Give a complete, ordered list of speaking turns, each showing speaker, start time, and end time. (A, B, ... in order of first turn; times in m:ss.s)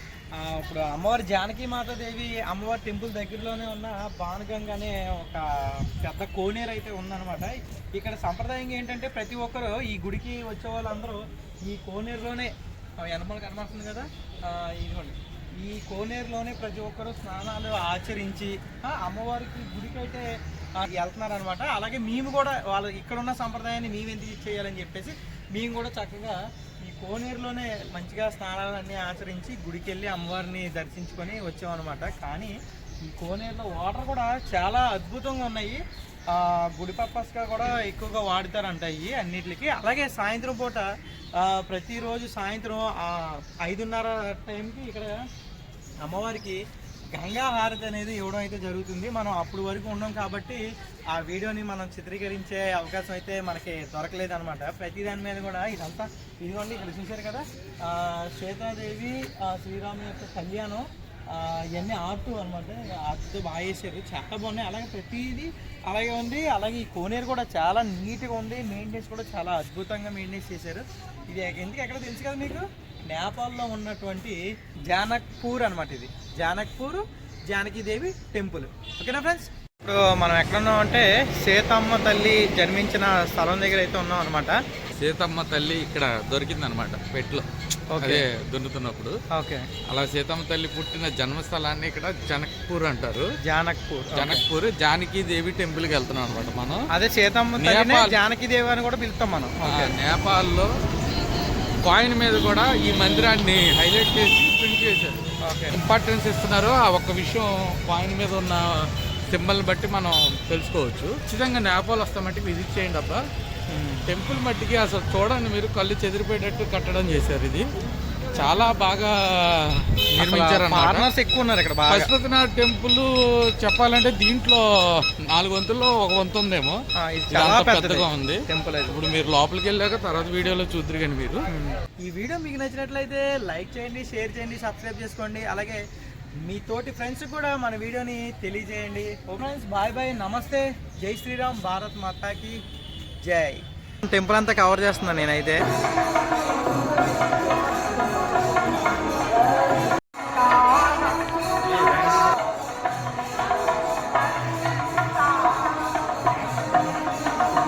0:00.3-0:45.2 A
0:46.0-0:46.6 A
0:47.1-1:24.6 A
1:25.0-1:29.2 B
1:27.9-1:28.2 A
1:29.3-1:29.7 A
1:29.9-1:33.3 B
1:33.4-1:34.4 A
1:34.1-1:36.8 B
1:36.9-1:39.9 A
1:37.6-1:38.2 B
1:39.6-1:40.7 B
1:41.8-1:45.2 B
1:45.4-1:45.8 A
1:45.7-1:53.2 B
1:53.7-1:54.1 A
1:54.1-1:57.6 B
1:58.3-2:01.1 B
2:00.2-2:02.1 A
2:01.9-2:11.4 B
2:07.0-2:09.0 A
2:11.5-2:15.8 A
2:16.4-2:22.6 A
2:23.2-2:25.6 A